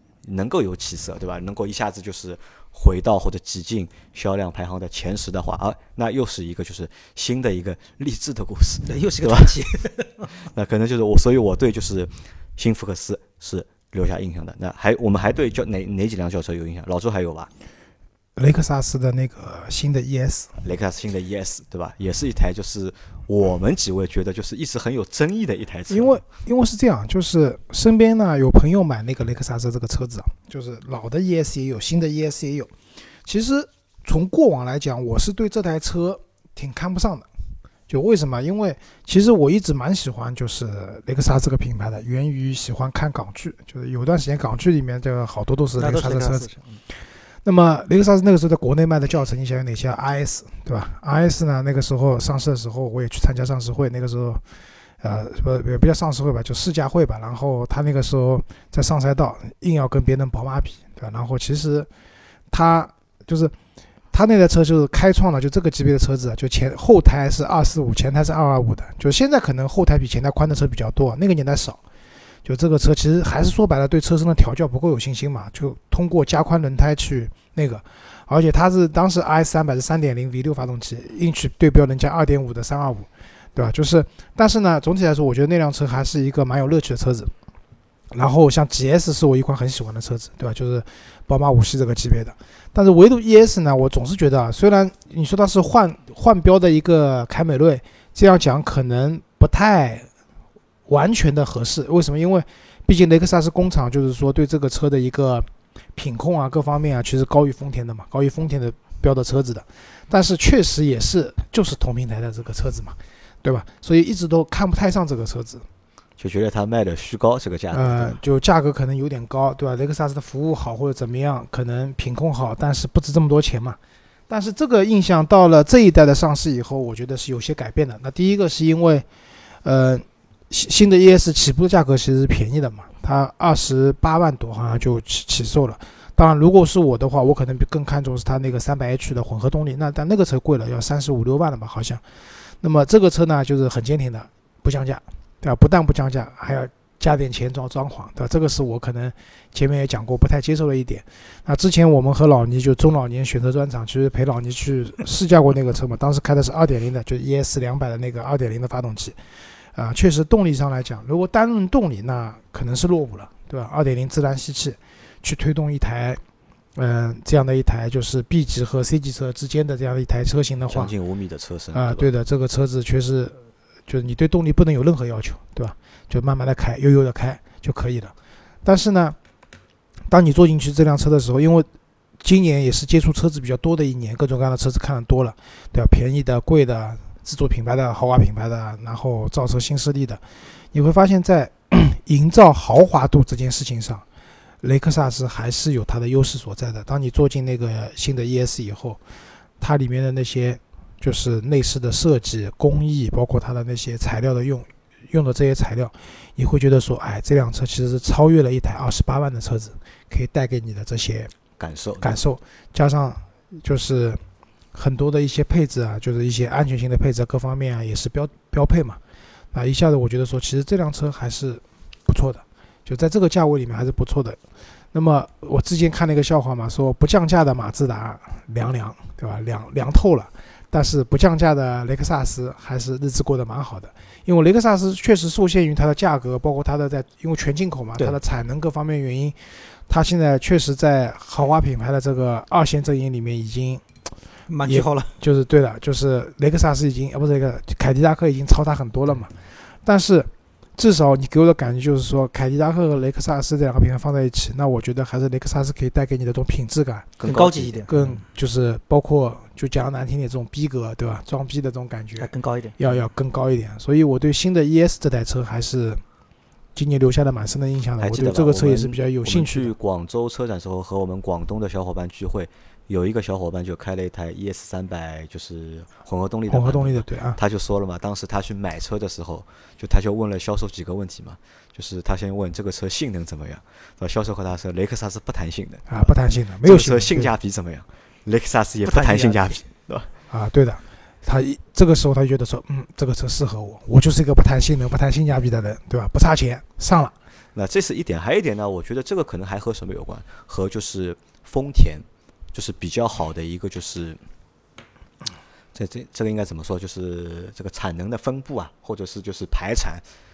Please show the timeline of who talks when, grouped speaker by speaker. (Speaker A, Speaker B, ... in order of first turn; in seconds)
Speaker A: 0.2-9.6, 10.3-17.5, 20.6-26.2, 116.2-118.2, 170.7-172.1, 211.6-212.2, 257.2-257.9, 268.0-286.1, 286.6-290.1, 297.5-304.2, 305.7-310.0
Speaker B: 8.9-10.3, 45.8-46.6, 244.5-245.1, 257.2-258.2, 262.2-262.8, 288.8-289.6
Speaker C: 18.4-20.6, 25.9-32.7, 33.2-37.3, 37.9-46.5, 47.4-54.4, 55.0-61.9, 62.5-63.5, 64.1-71.8, 72.4-87.3, 88.1-100.1, 100.9-115.7, 117.7-123.8, 124.3-129.1, 129.6-159.2, 159.7-166.2, 166.8-170.9, 171.7-179.2, 180.1-181.7, 182.2-194.0, 194.6-199.0, 199.6-211.3, 212.0-214.2, 214.7-219.0, 219.5-224.4, 224.9-243.8, 244.6-257.1, 257.9-266.0, 266.7-269.7, 276.5-277.4, 285.9-287.3, 290.3-297.1